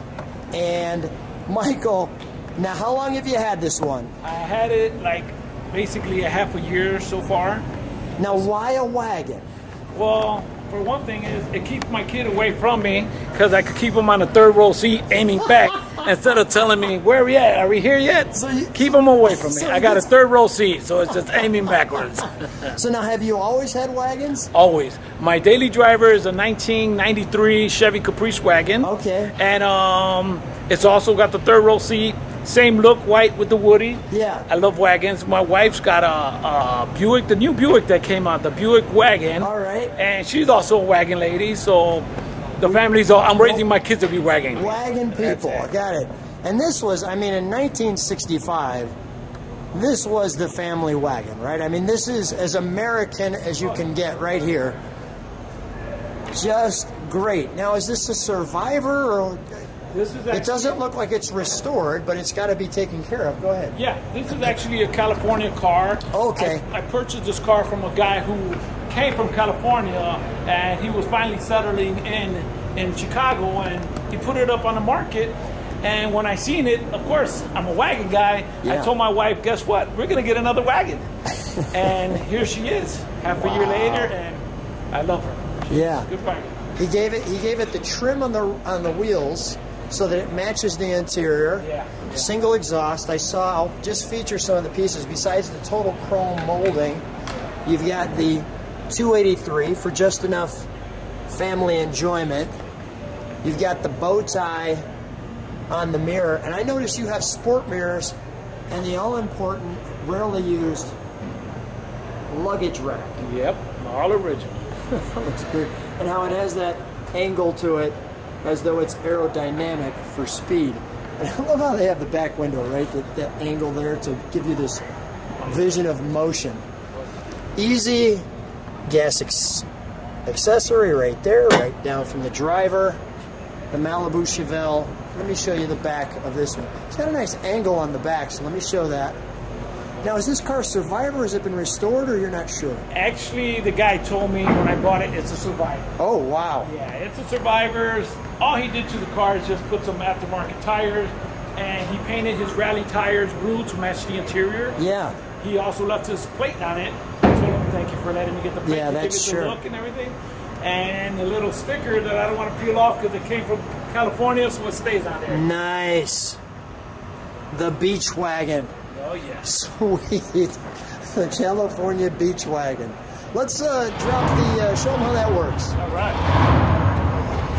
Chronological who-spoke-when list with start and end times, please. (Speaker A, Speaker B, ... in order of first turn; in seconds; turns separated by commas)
Speaker A: 0.5-4.1, Speaker B: 4.2-7.7, Speaker A: 8.2-9.5, Speaker B: 9.9-22.8, Speaker A: 18.3-20.1, Speaker A: 22.6-24.5, Speaker B: 24.5-42.1, Speaker A: 28.8-29.4, Speaker A: 34.1-34.5, Speaker A: 39.4-39.9, Speaker B: 42.6-45.7, Speaker A: 43.3-43.6, Speaker A: 44.5-48.9, Speaker A: 49.7-54.8, Speaker A: 56.3-59.7, Speaker B: 59.9-60.8, Speaker A: 60.3-63.8, Speaker B: 63.7-81.1, Speaker A: 64.3-64.6, Speaker A: 66.1-66.7, Speaker A: 78.6-78.9, Speaker A: 81.3-81.7, Speaker B: 81.7-86.6, Speaker A: 83.4-84.1, Speaker A: 85.7-86.1, Speaker A: 86.8-97.0, Speaker B: 91.6-92.3, Speaker A: 97.7-100.7, Speaker A: 101.3-102.5, Speaker A: 103.4-104.9, Speaker A: 105.7-108.2, Speaker A: 108.7-111.0, Speaker A: 112.3-113.2, Speaker B: 113.2-114.7, Speaker A: 114.9-124.8, Speaker A: 125.4-126.6, Speaker A: 127.6-128.3, Speaker A: 128.9-129.7, Speaker A: 130.2-133.0, Speaker A: 133.7-139.2, Speaker A: 140.0-142.8, Speaker B: 142.9-145.9, Speaker A: 146.0-146.7, Speaker B: 146.6-154.8, Speaker A: 154.8-155.2, Speaker B: 155.3-165.5, Speaker A: 158.6-159.6, Speaker A: 165.3-166.4, Speaker A: 167.5-168.7, Speaker B: 168.9-169.5, Speaker A: 169.4-175.8, Speaker B: 175.8-176.2